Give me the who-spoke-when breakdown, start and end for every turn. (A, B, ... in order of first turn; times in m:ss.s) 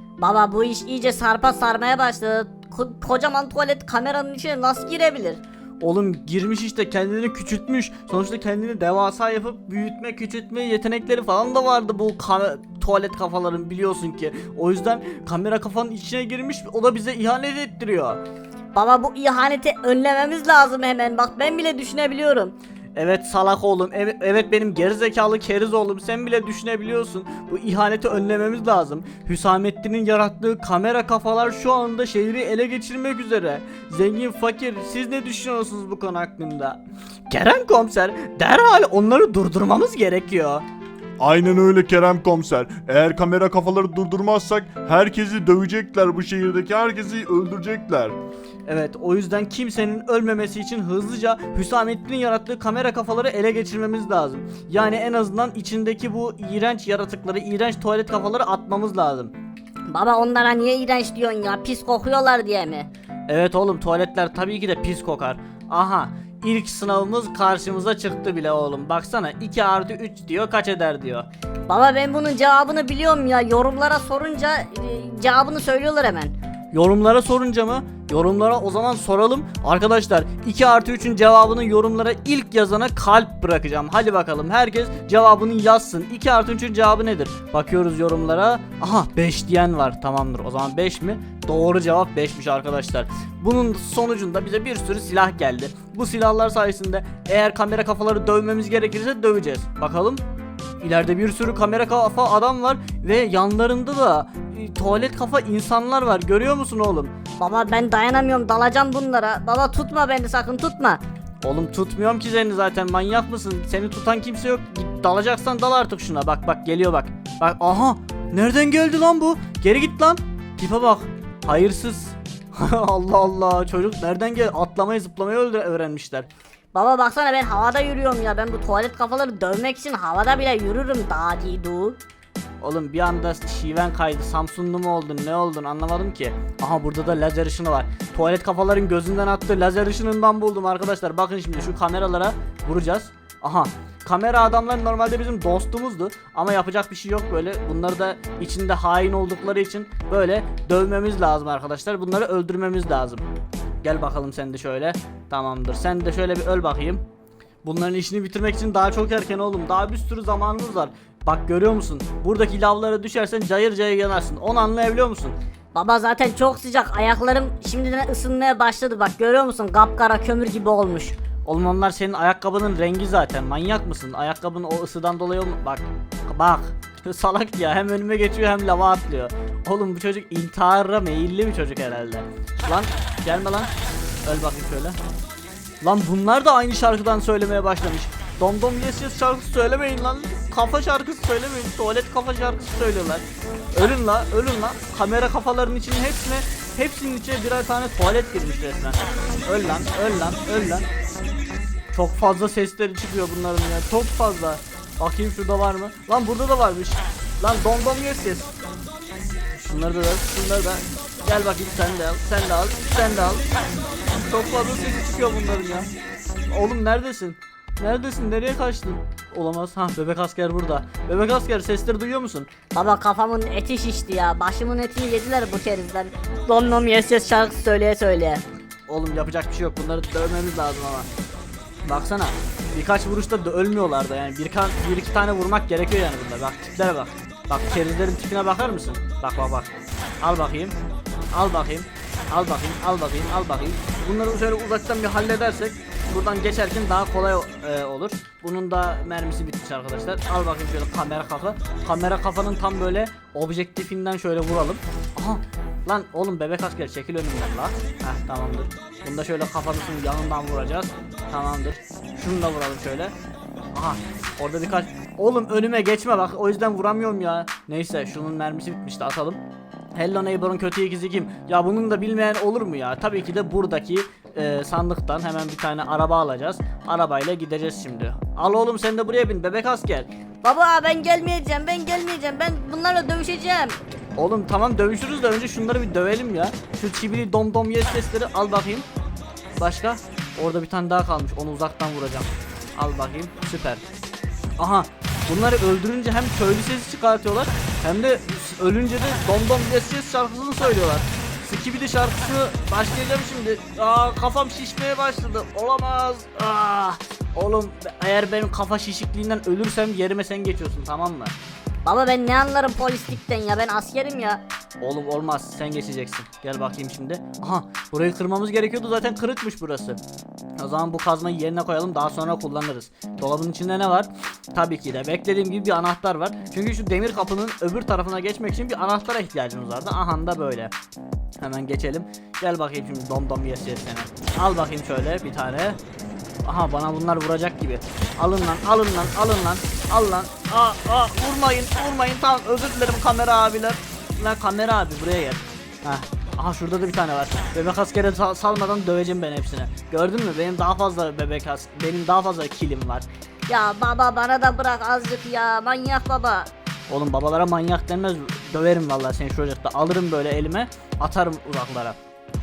0:00.2-0:05.4 A
0:05.8-0:18.2 B
0:18.7-0:22.6 A
0:22.9-0:36.8 B
0:37.3-0:40.6 B
0:41.2-0:41.9 B
0:41.2-0:48.1 C
0:43.1-0:44.2 B
0:48.6-0:59.3 B
0:59.9-1:02.9 A
1:03.3-1:11.3 B
1:11.7-1:16.3 A
1:16.7-1:40.2 B
1:40.8-1:47.1 B
1:47.4-1:51.0 A
1:51.4-2:06.3 B
2:06.7-2:12.0 A
2:12.6-2:33.3 B
2:33.8-2:37.0 B
2:37.6-2:45.4 B
2:45.7-2:51.2 A
2:51.4-3:03.7 B
3:04.2-3:05.0 B
3:05.8-3:20.8 B
3:21.9-3:28.5 B
3:29.5-3:33.5 B
3:34.1-3:35.9 B
3:36.5-3:42.5 B
3:42.7-3:48.4 A
3:48.9-3:51.1 B
3:51.8-3:59.7 B
4:00.2-4:00.8 B
4:01.3-4:23.1 B
4:23.7-4:29.4 B
4:29.9-4:40.1 B
4:40.4-4:43.8 A
4:44.2-4:48.9 B
4:49.6-4:53.8 B
4:54.6-5:11.3 B
5:11.8-5:14.4 A
5:14.8-5:20.0 B
5:20.6-5:30.7 B
5:31.4-5:35.8 B
5:36.4-5:53.0 B
5:53.5-5:56.5 A
5:56.9-6:02.0 B